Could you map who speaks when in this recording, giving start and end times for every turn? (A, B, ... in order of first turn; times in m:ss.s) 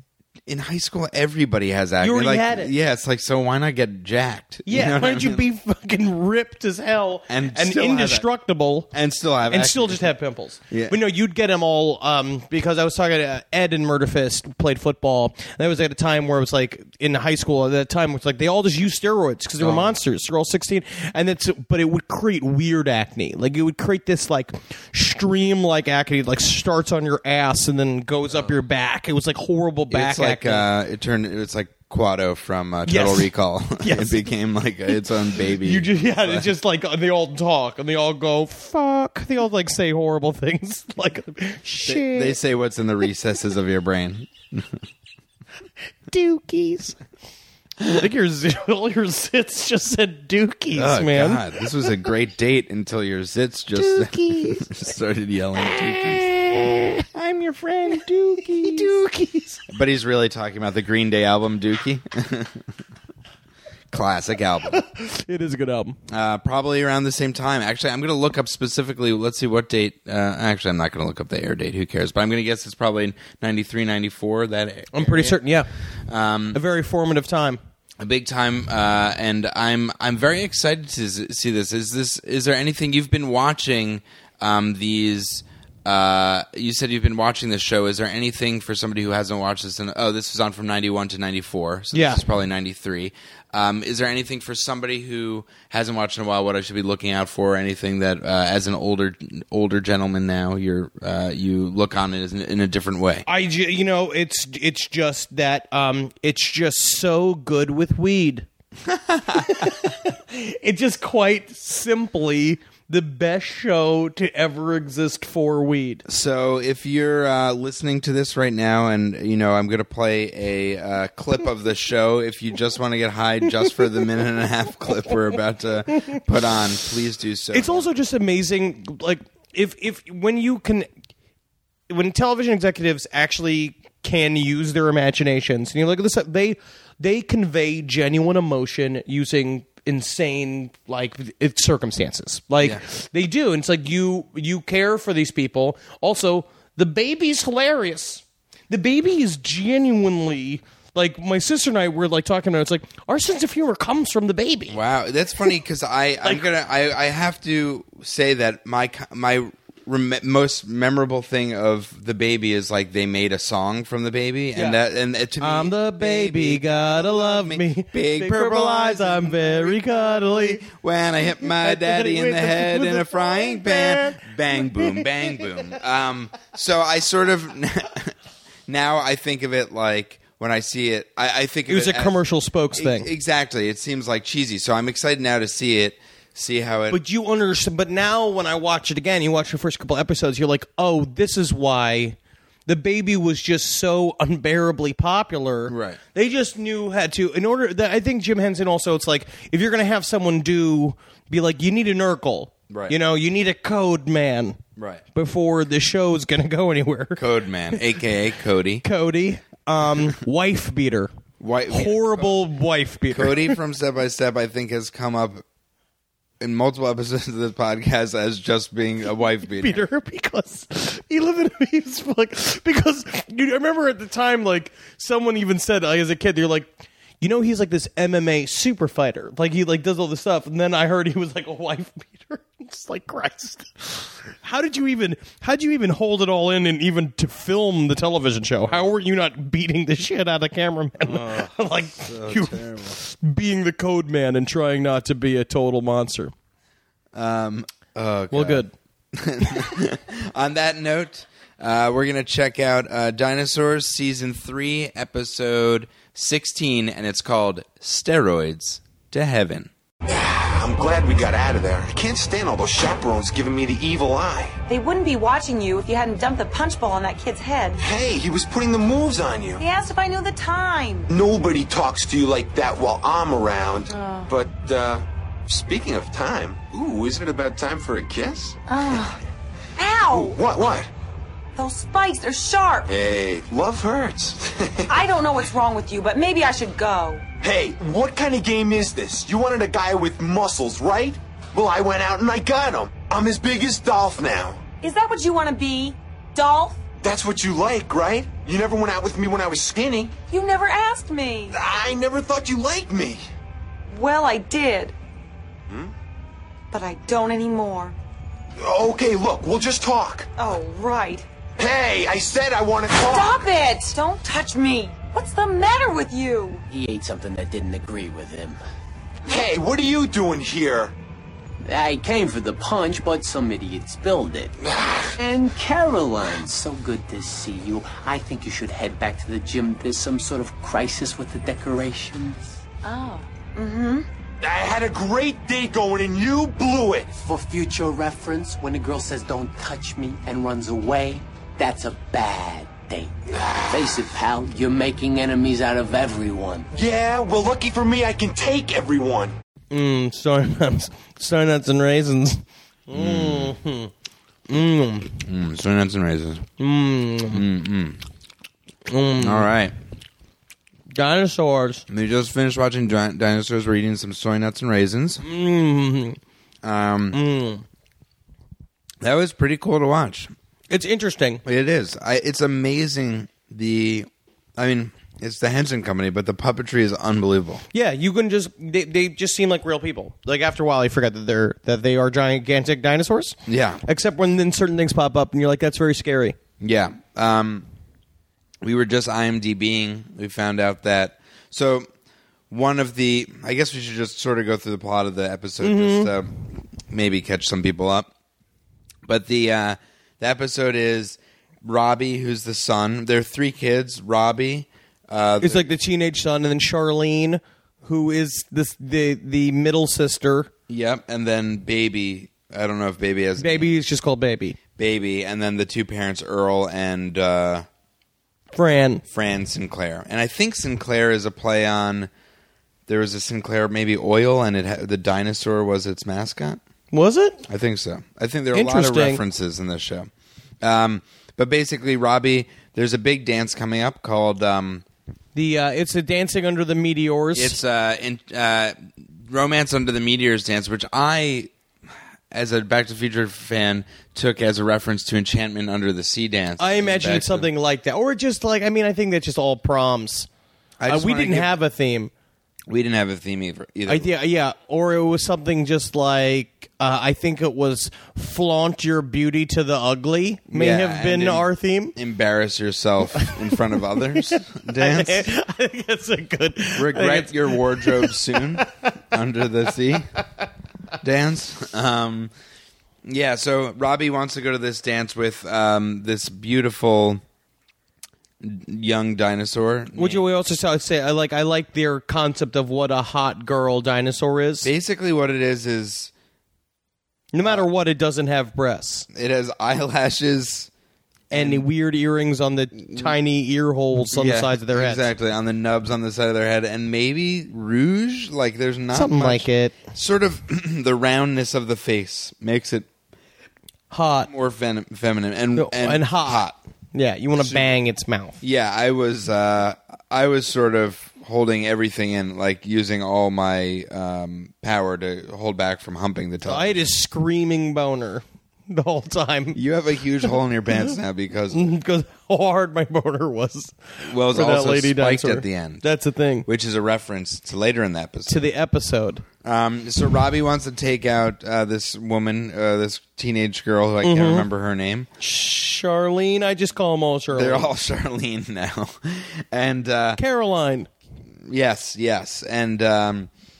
0:00.5-0:05.4 A
0:02.0-0:02.7 B
0:04.7-0:08.9 B
0:07.3-0:08.3 A
0:08.9-0:10.1 A
0:09.5-0:30.7 B
0:10.7-0:11.0 A
0:19.6-0:19.9 A
0:29.9-0:36.5 A
0:32.9-0:34.3 B
0:35.5-0:42.4 B
0:41.8-0:44.7 A
0:46.1-0:47.0 B
0:47.8-0:51.4 B
0:50.7-0:56.4 A
0:53.8-0:54.7 B
0:55.9-0:57.0 B
0:57.2-0:59.0 A
0:57.9-0:59.6 B
0:59.7-1:02.6 A
1:03.9-1:04.8 A
1:04.7-1:06.0 B
1:06.1-1:15.4 A
1:14.9-1:15.7 B
1:16.1-1:16.6 A
1:16.5-1:17.6 B
1:18.0-1:43.2 A
1:31.9-1:32.2 B
1:43.3-1:48.4 B
1:48.9-1:49.8 A
1:49.3-1:56.0 B
1:56.1-2:07.9 A
2:07.5-2:10.9 B
2:11.9-2:34.8 B
2:34.7-2:58.2 A
2:45.4-2:50.6 B
2:51.4-2:55.7 B
2:58.7-3:02.2 A
3:01.7-3:03.1 B
3:02.7-3:07.0 A
3:06.9-3:12.2 B
3:12.7-3:24.6 B
3:15.7-3:16.0 A
3:22.7-3:23.0 A
3:24.8-3:25.0 A
3:25.2-3:27.2 B
3:27.2-3:28.8 A
3:28.8-3:31.1 B
3:31.4-3:32.4 A
3:31.7-3:33.6 B
3:33.1-3:35.4 A
3:36.4-3:39.9 A
3:39.6-4:06.3 B
4:01.0-4:03.0 A
4:07.1-4:19.7 A
4:08.3-4:08.7 B
4:20.1-4:24.6 C
4:24.7-4:27.8 D
4:27.8-4:29.6 C
4:29.6-4:31.1 D
4:31.1-4:38.6 C
4:33.9-4:34.3 D
4:38.7-4:39.2 D
4:39.8-4:40.4 D
4:40.1-4:40.9 C
4:41.6-4:42.9 D
4:42.9-4:44.9 C
4:44.9-4:47.2 D
4:47.4-4:54.6 C
4:54.8-4:56.8 D
4:57.0-5:00.2 C
5:00.3-5:01.6 D
5:01.5-5:03.2 C
5:03.9-5:04.9 D
5:06.7-5:07.9 D
5:08.6-5:10.3 C
5:10.4-5:11.2 D
5:11.6-5:13.4 C
5:13.0-5:16.6 D
5:16.7-5:18.6 E
5:19.3-5:20.9 C
5:21.6-5:24.5 E
5:24.8-5:25.1 C
5:25.2-5:32.6 E
5:32.8-5:34.1 D
5:34.4-5:37.2 C
5:37.2-5:43.1 E
5:43.7-5:46.7 E
5:46.7-5:49.3 C
5:49.7-5:53.9 B
5:52.9-5:53.6 A
5:54.5-5:55.1 B
5:55.2-5:56.4 A
5:56.6-5:57.4 B
5:57.3-5:58.0 A
5:58.9-5:59.5 B
5:59.2-5:59.8 A
6:00.9-6:01.8 B
6:01.9-6:05.2 A
6:05.2-6:06.2 B
6:06.6-6:07.2 A
6:07.1-6:07.6 B
6:09.0-6:10.3 A
6:10.7-6:11.4 B
6:11.4-6:17.6 A
6:17.7-6:26.4 B
6:23.5-6:23.8 A
6:26.6-6:27.7 A
6:28.6-6:31.9 A
6:32.5-6:38.1 A
6:35.6-6:36.1 B
6:39.1-6:45.6 A
6:45.4-6:50.5 B
6:50.7-6:53.7 A
6:53.4-6:54.6 B
6:54.8-6:57.7 A
6:58.6-6:59.0 B
6:59.1-7:02.1 A
7:02.9-7:06.6 A
7:06.9-7:07.5 B
7:07.5-7:10.1 A
7:08.5-7:09.2 B
7:10.6-7:14.8 A
7:15.3-7:17.6 B
7:17.3-7:21.5 A
7:22.3-7:27.5 A
7:26.6-7:30.3 B
7:30.8-7:31.5 A
7:30.9-7:32.1 B
7:32.7-7:34.1 A
7:33.9-7:42.0 B
7:40.5-7:45.3 A
7:43.2-7:48.7 B
7:46.8-7:50.1 A
7:51.0-7:52.3 A
7:53.0-7:57.2 A
7:58.4-8:00.2 A
7:59.9-8:04.7 B
8:04.6-8:06.1 A
8:07.3-8:09.1 B
8:09.1-8:10.7 A
8:11.3-8:11.7 A
8:11.3-8:15.1 B
8:12.9-8:13.1 A
8:14.1-8:22.9 A
8:18.9-8:19.8 B
8:23.9-8:24.3 B
8:24.2-8:26.6 A
8:25.6-8:28.4 B
8:27.4-8:27.8 A
8:28.4-8:36.9 A
8:36.4-8:39.6 B
8:39.5-8:41.7 A
8:41.5-8:46.5 B
8:44.0-8:45.8 A
8:46.4-8:48.5 A
8:48.3-8:49.2 B
8:49.4-8:55.1 A
8:54.0-8:54.5 B
8:55.2-8:57.7 B
8:57.3-9:00.2 A
9:00.2-9:00.9 B
9:01.4-9:03.3 A